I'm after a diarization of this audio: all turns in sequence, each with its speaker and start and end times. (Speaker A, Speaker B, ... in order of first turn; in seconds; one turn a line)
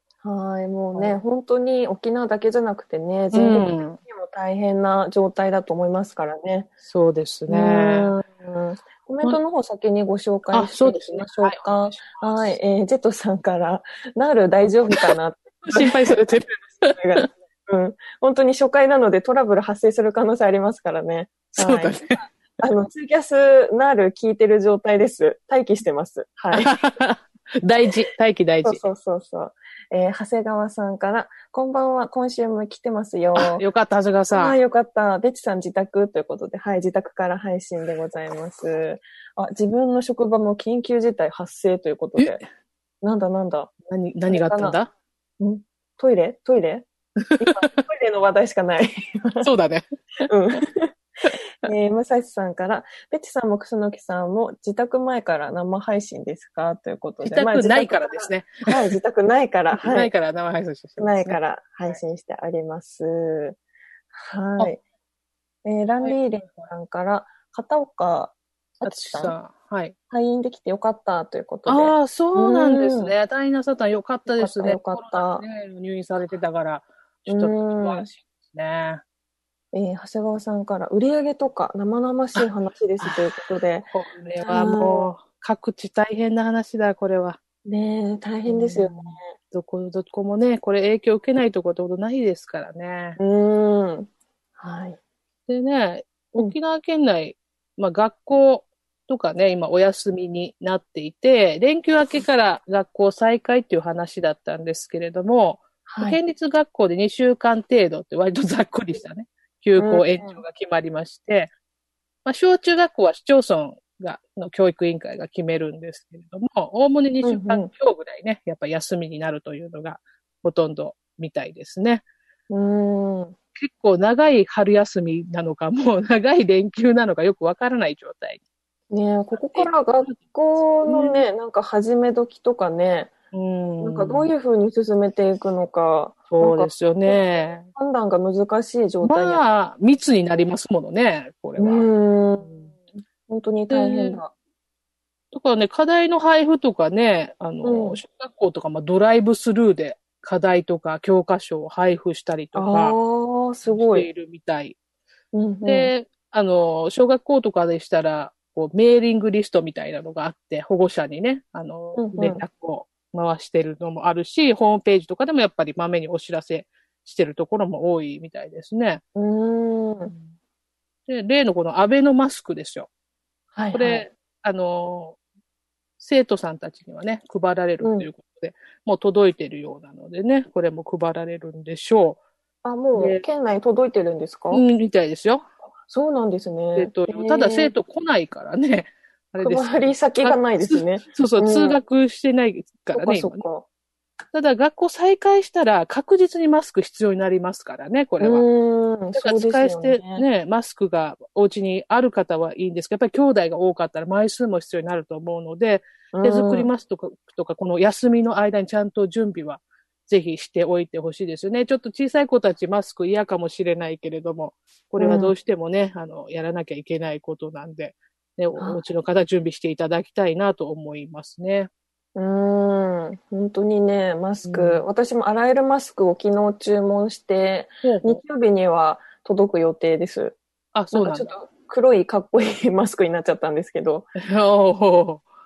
Speaker A: 0.2-6.7
Speaker B: 3.3-4.0
Speaker B: 6.8-8.1
Speaker A: 7.5-16.3
Speaker B: 10.5-12.6
Speaker B: 15.7-17.2
Speaker A: 16.8-26.8
Speaker B: 21.5-22.2
Speaker B: 26.5-28.8
Speaker A: 28.6-33.6
Speaker B: 33.4-34.6
Speaker A: 34.3-42.4
Speaker A: 43.0-43.7
Speaker B: 43.9-44.9
Speaker A: 44.3-44.8
Speaker A: 45.4-49.5
Speaker B: 47.3-47.7
Speaker B: 49.4-49.8
Speaker A: 50.2-51.0
Speaker A: 51.6-60.1
Speaker B: 57.2-58.8
Speaker B: 59.7-62.0
Speaker A: 61.0-63.6
Speaker A: 64.1-64.8
Speaker A: 65.6-69.3
Speaker B: 66.0-66.6
Speaker B: 68.8-69.9
Speaker A: 70.1-73.1
Speaker B: 71.7-79.0
Speaker A: 74.3-75.4
Speaker A: 77.3-78.1
Speaker A: 79.7-85.1
Speaker B: 83.9-87.4
Speaker A: 87.6-89.3
Speaker B: 88.5-93.2
Speaker A: 93.2-95.0
Speaker B: 95.5-111.5
Speaker A: 105.9-106.2
Speaker A: 109.8-110.4
Speaker B: 112.2-122.0
Speaker A: 117.2-117.7
Speaker A: 122.5-123.3
Speaker B: 123.5-128.4
Speaker A: 128.9-133.1
Speaker B: 129.3-130.2
Speaker B: 130.8-131.2
Speaker B: 133.3-134.3
Speaker A: 133.8-139.4
Speaker B: 136.3-137.7
Speaker B: 139.0-141.9
Speaker A: 141.6-144.3
Speaker B: 142.4-142.7
Speaker B: 143.7-144.2
Speaker B: 145.3-152.9
Speaker A: 147.6-148.0
Speaker A: 152.5-154.1
Speaker B: 153.7-154.8
Speaker A: 155.3-155.9
Speaker B: 155.6-169.0
Speaker A: 161.9-162.4
Speaker A: 169.1-170.1
Speaker B: 171.1-172.9
Speaker A: 173.5-174.1
Speaker B: 173.7-175.2
Speaker B: 176.0-182.2
Speaker A: 177.8-178.1
Speaker A: 182.6-184.6
Speaker B: 182.9-183.2
Speaker B: 184.5-185.4
Speaker A: 185.9-187.7
Speaker B: 186.8-193.4
Speaker A: 189.4-191.8
Speaker A: 192.9-193.7
Speaker B: 194.3-198.4
Speaker A: 198.2-200.2
Speaker B: 199.1-221.7
Speaker A: 206.1-206.7
Speaker A: 215.0-215.3
Speaker A: 218.6-218.8
Speaker A: 222.1-230.4
Speaker B: 224.4-224.8
Speaker B: 227.8-228.2
Speaker B: 230.7-231.3
Speaker A: 230.9-234.1
Speaker B: 234.2-235.2